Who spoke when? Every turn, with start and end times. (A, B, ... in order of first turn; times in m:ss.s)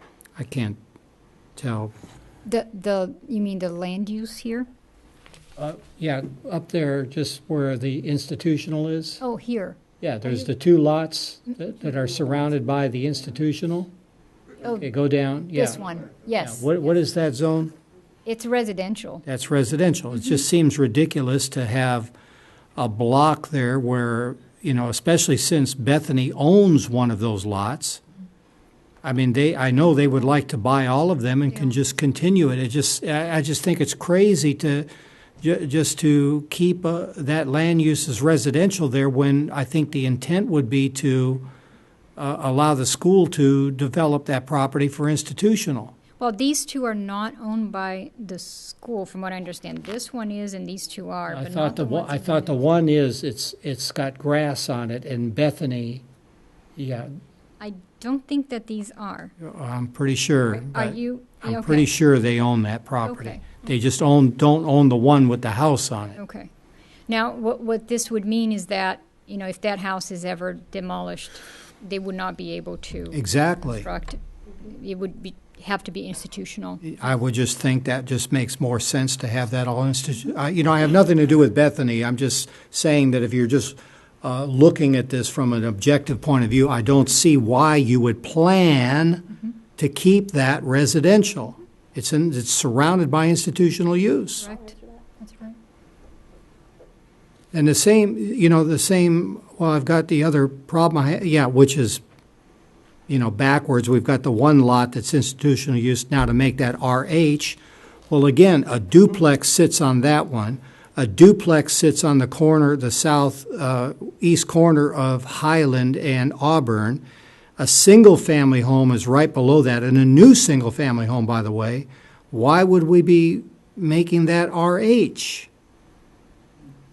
0:00.4-0:00.8 A
0:01.6-0:01.9 A
0:02.4-0:04.7 B
0:05.6-0:09.2 A
0:09.2-0:10.5 B
0:10.0-0:13.9 A
0:14.8-0:15.8 A
0:15.5-0:16.7 B
0:16.4-0:17.7 A
0:18.2-0:19.2 B
0:19.2-0:22.1 A
0:22.8-0:28.0 A
0:29.0-0:34.9 A
0:35.4-0:41.4 A
0:42.2-0:45.9 A
0:46.2-0:52.6 B
0:51.3-0:56.0 A
0:56.8-0:57.1 A
0:57.6-0:59.3 B
0:59.4-1:06.2 A
1:00.5-1:01.9 B
1:03.0-1:03.5 B
1:06.2-1:06.5 B
1:07.1-1:16.8 B
1:13.1-1:13.9 A
1:16.8-1:34.5 A
1:34.4-1:35.6 B
1:37.5-1:42.0 A
1:43.1-1:47.6 A
1:48.1-1:57.0 A
1:57.6-2:05.5 A